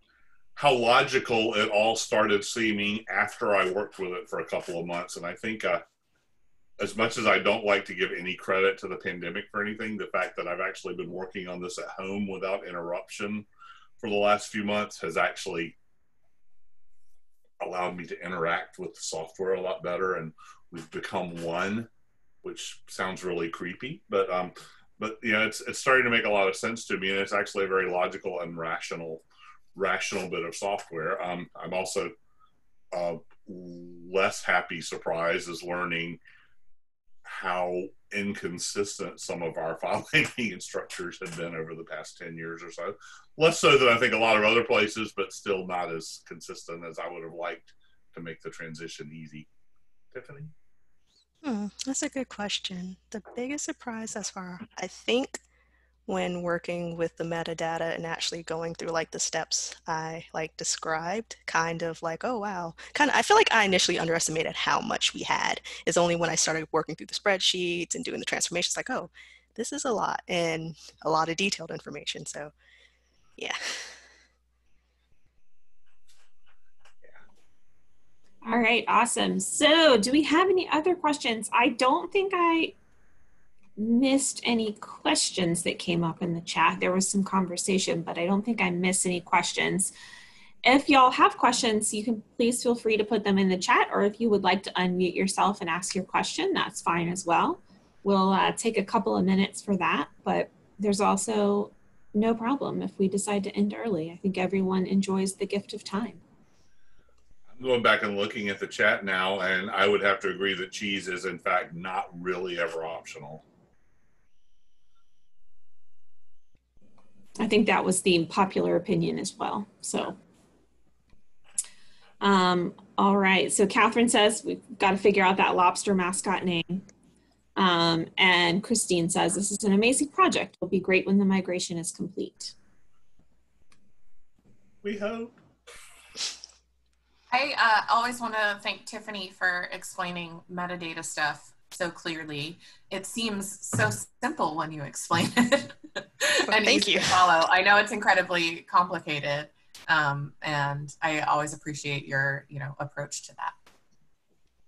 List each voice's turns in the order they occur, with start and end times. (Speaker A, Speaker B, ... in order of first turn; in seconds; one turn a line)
Speaker A: 0.6-5.8
Speaker A: 6.8-13.5
Speaker A: 14.0-15.7
Speaker A: 17.6-21.9
Speaker A: 22.4-29.2
Speaker A: 29.7-32.1
Speaker A: 32.9-36.2
Speaker A: 37.2-49.5
Speaker A: 50.1-50.5
Speaker B: 51.4-55.4
Speaker B: 56.1-72.5
Speaker B: 73.4-73.7
Speaker C: 78.4-82.8
Speaker C: 83.8-89.9
Speaker C: 90.6-106.2
Speaker A: 107.5-113.4
Speaker C: 117.4-120.2
Speaker C: 122.2-126.8
Speaker C: 127.6-132.5
Speaker A: 134.8-135.3
Speaker D: 137.3-153.5
Speaker B: 146.5-147.2